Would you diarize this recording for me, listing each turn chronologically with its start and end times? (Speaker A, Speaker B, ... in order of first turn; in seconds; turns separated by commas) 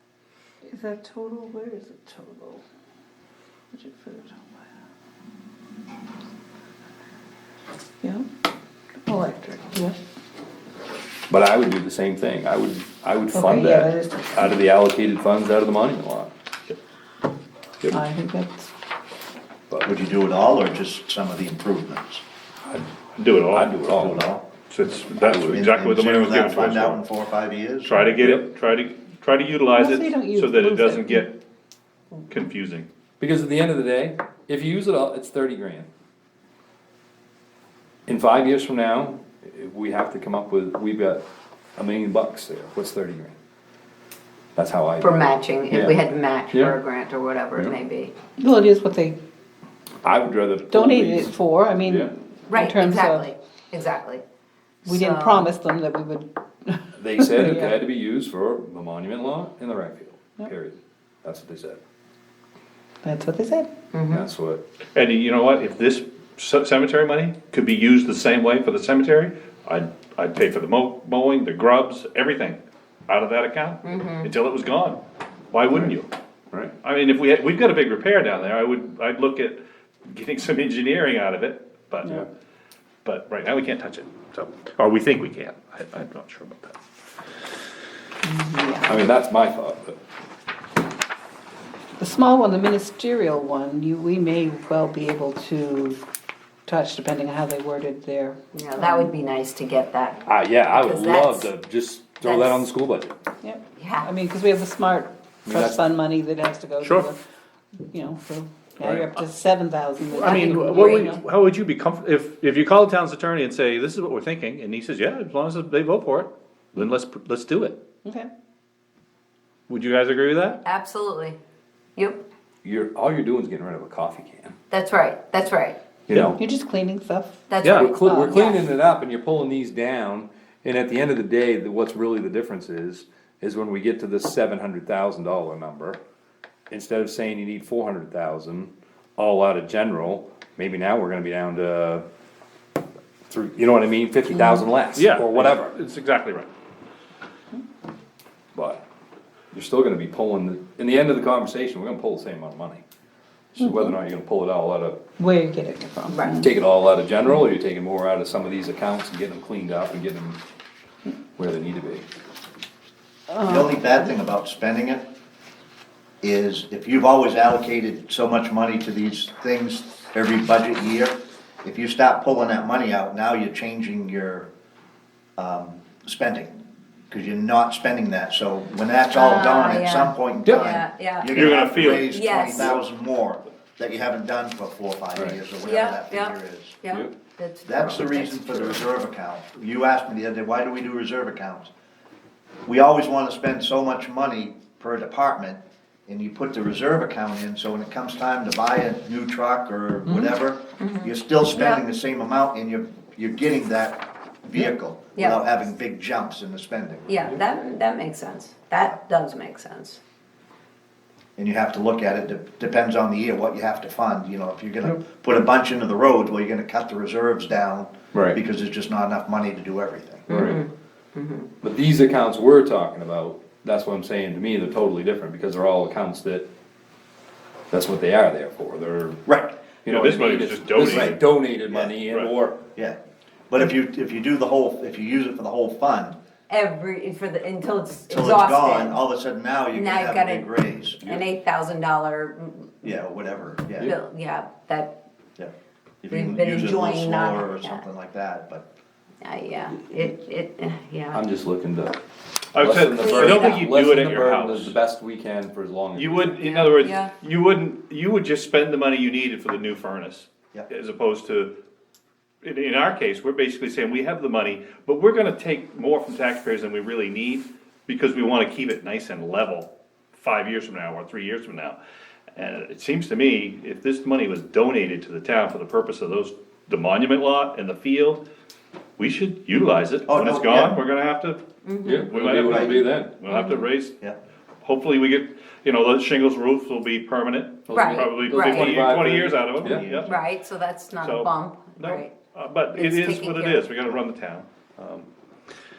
Speaker A: 0.6-2.6, Speaker A: 3.7-4.6, Speaker A: 9.1-10.0, Speaker B: 11.3-16.3, Speaker A: 13.3-14.5, Speaker A: 17.9-18.7, Speaker C: 19.9-22.2, Speaker D: 23.2-23.8, Speaker B: 23.5-24.3, Speaker C: 23.9-24.4, Speaker D: 24.7-27.0, Speaker C: 25.3-28.1, Speaker D: 27.9-31.3, Speaker B: 28.2-28.4, Speaker A: 29.7-31.3, Speaker D: 32.3-32.9, Speaker B: 33.2-35.9, Speaker B: 38.1-41.2, Speaker B: 41.8-43.4, Speaker B: 44.6-46.8, Speaker E: 45.0-48.1, Speaker A: 48.4-49.2, Speaker B: 50.0-52.1, Speaker A: 50.7-53.3, Speaker E: 52.5-54.2, Speaker E: 54.9-55.5, Speaker A: 54.9-57.8, Speaker B: 57.0-61.8, Speaker A: 63.0-63.7, Speaker E: 63.9-64.3, Speaker B: 64.1-64.6, Speaker D: 65.0-75.0, Speaker E: 73.8-74.3, Speaker D: 75.5-76.1, Speaker D: 76.8-82.2, Speaker D: 83.0-86.8, Speaker A: 88.2-89.1, Speaker B: 88.8-90.0, Speaker A: 92.0-96.0, Speaker A: 96.7-99.1, Speaker E: 98.5-101.5, Speaker B: 100.2-103.2, Speaker E: 102.2-102.7, Speaker A: 103.4-107.2, Speaker E: 103.8-104.1, Speaker B: 105.5-105.8, Speaker D: 106.8-107.1, Speaker A: 107.9-111.2, Speaker D: 108.8-109.1, Speaker D: 110.1-117.8, Speaker E: 110.6-111.1, Speaker D: 119.7-120.6, Speaker E: 120.6-121.4, Speaker E: 122.0-122.2, Speaker B: 122.6-124.6, Speaker E: 124.7-125.8, Speaker B: 126.1-126.4, Speaker A: 126.3-128.3, Speaker E: 127.5-128.7, Speaker D: 127.6-127.9, Speaker B: 127.7-136.0, Speaker B: 136.7-142.0, Speaker B: 143.3-145.8, Speaker E: 144.4-144.6, Speaker D: 144.9-146.5, Speaker B: 148.5-148.8, Speaker B: 149.5-152.8, Speaker B: 153.5-155.0, Speaker A: 153.6-153.9, Speaker A: 155.2-156.5, Speaker E: 156.1-156.4, Speaker B: 156.4-160.4, Speaker B: 161.4-162.1, Speaker A: 163.3-164.1, Speaker C: 163.5-165.1, Speaker C: 166.2-174.5, Speaker C: 175.4-176.6, Speaker C: 177.1-186.8, Speaker E: 179.1-182.8, Speaker D: 181.3-182.1, Speaker E: 185.6-188.9, Speaker C: 187.7-191.7, Speaker C: 192.7-207.2, Speaker E: 200.8-201.8, Speaker E: 205.2-205.5, Speaker E: 207.1-210.0, Speaker C: 211.4-220.3, Speaker B: 218.1-218.4, Speaker E: 220.3-221.5, Speaker B: 220.3-220.6, Speaker B: 221.6-226.5, Speaker B: 227.7-229.2, Speaker C: 229.3-229.5, Speaker B: 229.8-232.6, Speaker D: 229.9-231.2, Speaker C: 230.8-232.0, Speaker C: 233.5-236.2, Speaker E: 236.5-239.0, Speaker C: 238.1-241.0, Speaker E: 239.7-242.9, Speaker C: 242.8-243.9, Speaker E: 243.8-245.0, Speaker C: 246.0-248.7, Speaker E: 246.1-247.8, Speaker E: 249.2-251.2, Speaker B: 251.1-252.0, Speaker D: 252.6-254.8, Speaker B: 252.6-256.4, Speaker E: 253.0-253.6, Speaker D: 255.9-261.5, Speaker E: 256.4-257.1, Speaker D: 262.4-271.8, Speaker D: 272.4-278.2, Speaker D: 279.0-283.9, Speaker C: 280.1-280.8, Speaker E: 281.6-282.1, Speaker B: 281.8-283.1, Speaker C: 282.4-282.8, Speaker E: 283.3-283.6, Speaker D: 284.6-290.1, Speaker B: 287.7-290.0, Speaker E: 287.7-288.8, Speaker C: 289.6-290.2, Speaker E: 290.1-292.2, Speaker D: 291.0-295.1, Speaker E: 292.7-293.7